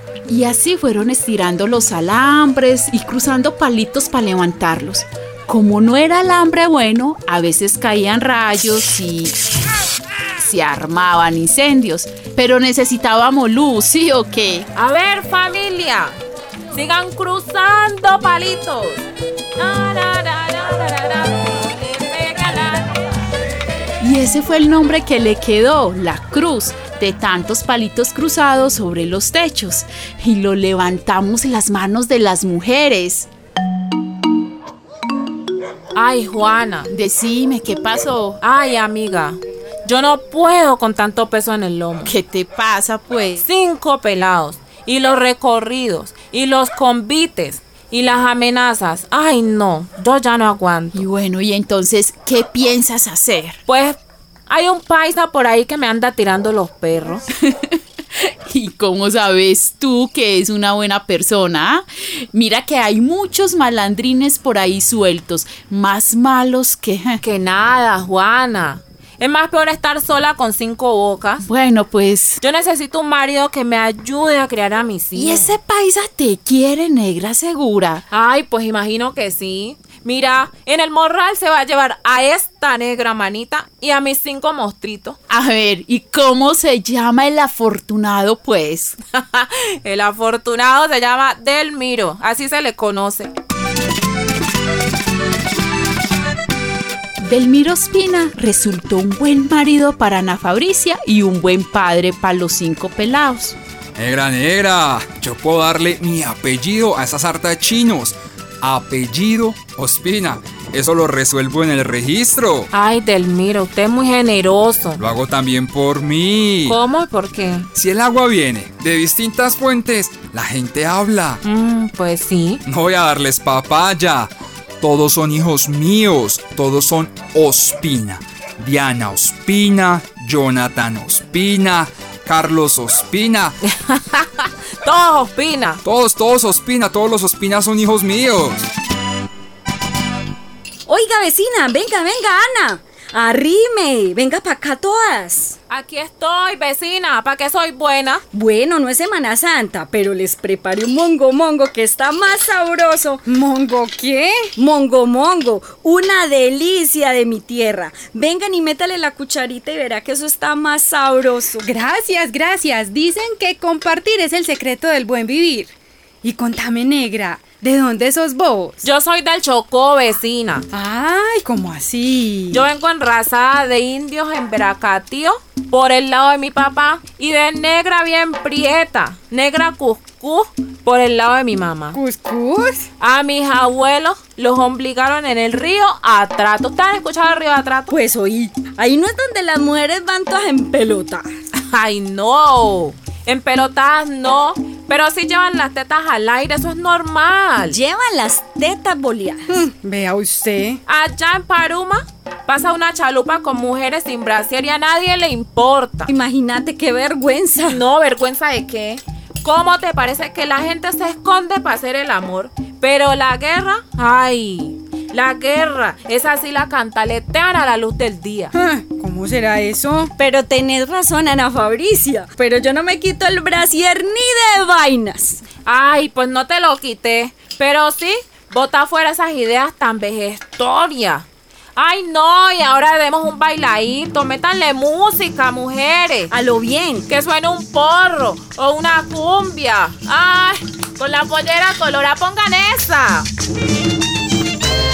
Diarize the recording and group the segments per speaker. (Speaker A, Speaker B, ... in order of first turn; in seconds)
Speaker A: 0.3-9.4, 10.4-14.7, 24.0-33.3, 36.9-38.4, 42.0-43.4, 50.9-53.6, 57.4-57.8, 58.5-67.2, 71.4-72.4, 75.1-78.0, 85.3-89.0, 97.2-103.6
Speaker B: 14.7-16.2, 16.7-19.0, 19.6-22.9, 35.9-36.9, 38.4-42.1, 43.4-51.0, 53.7-57.2, 67.2-71.4, 72.4-75.5, 78.1-85.2, 89.1-93.3, 112.7-115.0, 116.7-117.7, 121.4-122.6, 133.8-135.8, 145.7-148.2, 168.8-170.7, 172.5-182.0, 183.0-187.9, 191.6-197.8, 200.9-206.1, 207.7-218.5, 225.7-236.3, 237.1-243.3
Speaker C: 104.0-112.7, 115.0-116.8, 117.7-121.4, 122.7-133.6, 135.8-138.7
Speaker D: 140.9-145.6, 148.3-153.2, 154.5-161.7, 182.2-182.6, 187.9-191.3, 197.7-199.7, 206.1-207.8, 220.2-225.4, 236.3-237.0
Speaker E: 153.3-154.5, 161.6-168.8, 170.7-172.6, 181.9-182.7, 199.8-200.8, 218.5-220.1